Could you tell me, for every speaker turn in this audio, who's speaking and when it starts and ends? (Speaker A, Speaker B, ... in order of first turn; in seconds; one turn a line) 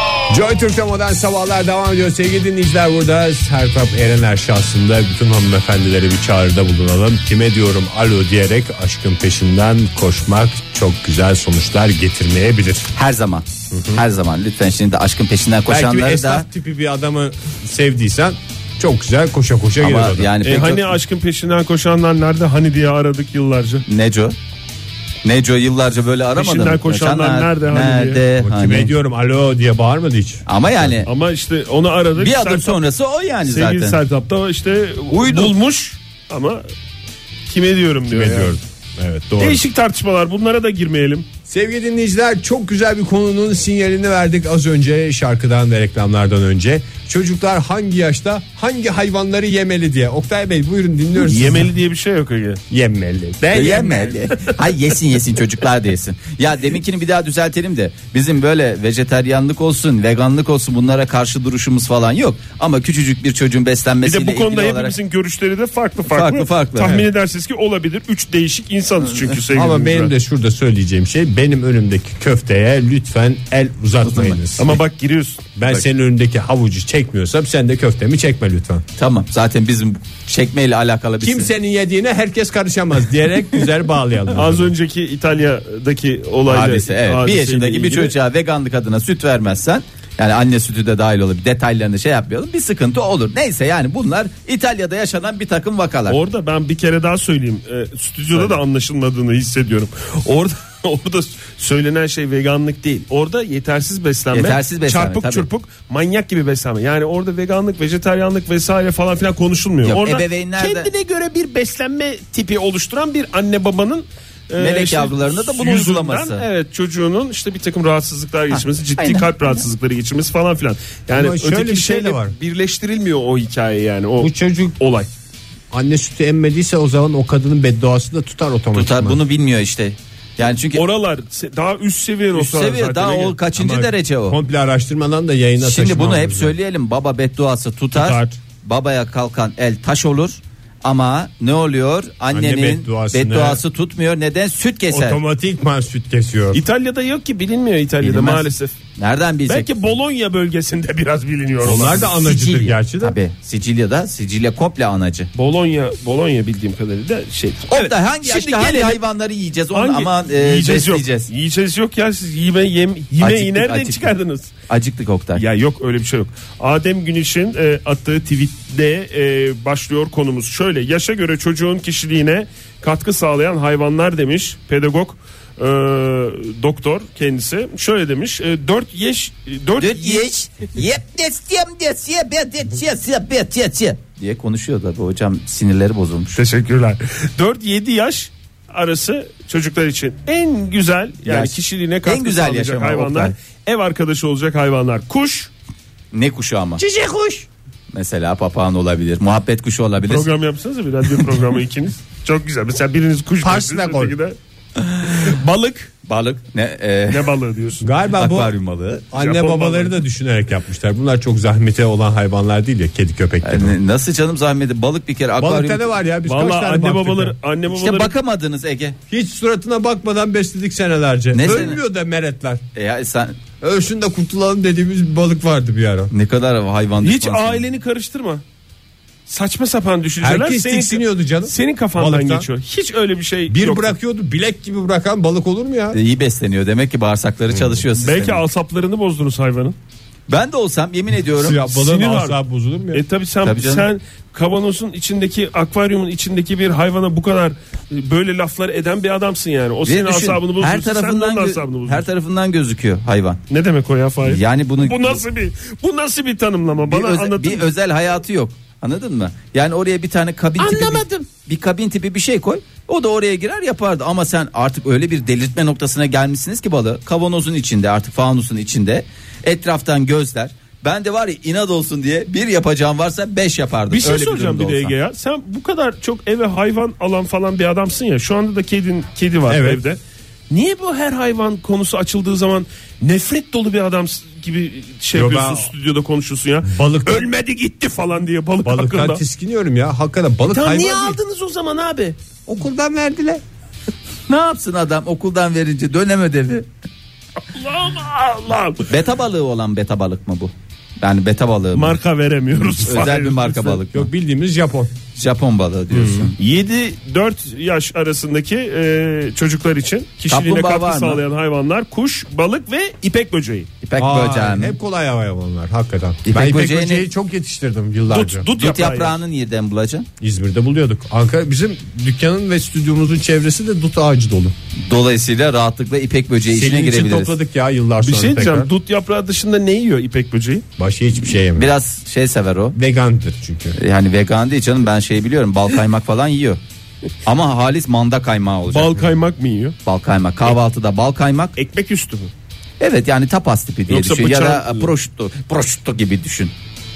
Speaker A: 0.3-12.9
Speaker B: 12.9-16.4
Speaker A: 13.7-14.0
Speaker A: 15.7-20.3
Speaker B: 19.8-20.9
Speaker C: 20.4-23.9
Speaker B: 23.9-24.4
Speaker B: 25.2-28.9
Speaker C: 26.4-28.2
Speaker A: 28.4-30.4
Speaker B: 30.5-31.1
Speaker C: 31.0-32.8
Speaker B: 32.2-34.0
Speaker C: 33.4-36.7
Speaker B: 35.1-35.5
Speaker C: 37.5-38.5
Speaker A: 38.1-39.6
Speaker C: 39.4-41.3
Speaker A: 41.5-51.7
Speaker C: 51.2-52.6
Speaker A: 52.7-54.0
Speaker B: 53.5-64.9
Speaker C: 53.6-54.5
Speaker C: 64.0-70.1
Speaker B: 66.1-67.0
Speaker A: 69.5-74.8
Speaker B: 74.0-74.4
Speaker C: 74.6-75.5
Speaker A: 75.5-78.8
Speaker B: 79.0-81.5
Speaker A: 81.2-84.7
Speaker C: 84.3-88.1
Speaker B: 86.5-96.2
Speaker C: 96.1-125.1
Speaker B: 104.3-105.5
Speaker B: 109.8-110.9
Speaker B: 114.6-116.4
Speaker B: 118.5-119.6
Speaker A: 121.1-122.3
Speaker A: 124.2-124.8
Speaker A: 125.7-129.2
Speaker B: 128.7-130.8
Speaker C: 130.7-133.4
Speaker B: 132.3-134.4
Speaker A: 133.6-136.5
Speaker B: 135.6-145.2
Speaker A: 138.0-138.3
Speaker A: 142.3-143.6
Speaker A: 144.9-146.6
Speaker C: 146.5-148.7
Speaker B: 148.0-149.7
Speaker C: 149.5-152.2
Speaker B: 151.6-155.3
Speaker A: 151.6-153.2
Speaker C: 155.3-159.0
Speaker B: 157.7-161.3
Speaker C: 159.7-164.5
Speaker B: 163.2-164.1
Speaker B: 164.7-165.4
Speaker C: 165.3-180.3
Speaker B: 179.8-186.4
Speaker C: 186.3-195.5
Speaker B: 191.2-193.3
Speaker B: 196.1-196.8
Speaker A: 196.8-197.4
Speaker B: 197.9-200.3
Speaker C: 200.0-204.3
Speaker A: 203.4-204.1
Speaker C: 205.0-205.9
Speaker B: 206.1-207.3
Speaker C: 207.1-207.9
Speaker A: 207.8-208.5
Speaker B: 208.2-209.1
Speaker A: 209.1-213.8
Speaker C: 209.2-210.0
Speaker B: 213.4-215.8
Speaker A: 215.4-217.3
Speaker C: 216.2-218.1
Speaker B: 217.7-219.0
Speaker A: 219.1-222.6
Speaker B: 221.3-221.8
Speaker B: 222.7-223.4
Speaker A: 223.6-226.1
Speaker B: 226.1-227.6
Speaker C: 227.0-228.4
Speaker C: 229.3-233.9
Speaker A: 230.2-232.5
Speaker A: 233.5-236.0
Speaker B: 235.9-238.4
Speaker A: 237.5-237.8
Speaker C: 237.9-239.8
Speaker B: 240.3-241.6
Speaker A: 241.3-243.0
Speaker C: 241.7-242.4
Speaker C: 242.9-252.1
Speaker B: 243.4-243.9
Speaker B: 249.8-253.4
Speaker C: 253.5-257.6
Speaker B: 254.2-255.2
Speaker B: 256.9-274.9
Speaker C: 260.6-261.2
Speaker C: 273.9-280.0
Speaker A: 279.5-279.8
Speaker C: 280.5-289.2
Speaker A: 285.1-285.7
Speaker A: 286.6-287.3
Speaker A: 288.6-291.2
Speaker C: 290.5-292.1
Speaker A: 292.5-293.4
Speaker B: 294.3-296.6
Speaker C: 297.5-298.9
Speaker B: 298.9-302.0
Speaker C: 301.7-303.8
Speaker B: 302.7-304.1
Speaker A: 303.9-304.9
Speaker B: 305.1-306.4
Speaker A: 305.9-306.3
Speaker C: 306.4-313.7
Speaker B: 310.3-311.2
Speaker B: 313.8-314.7
Speaker A: 314.0-318.5
Speaker B: 316.2-317.1
Speaker C: 318.1-319.1
Speaker B: 318.5-320.1
Speaker A: 320.2-324.5
Speaker B: 324.8-327.3
Speaker A: 326.5-328.7
Speaker C: 328.0-330.6
Speaker A: 330.8-331.7
Speaker B: 331.5-332.8
Speaker A: 332.7-333.8
Speaker B: 333.7-336.6
Speaker B: 337.2-339.0
Speaker C: 338.7-339.8
Speaker B: 339.9-341.5
Speaker C: 341.6-342.3
Speaker B: 342.8-346.5
Speaker C: 343.9-344.9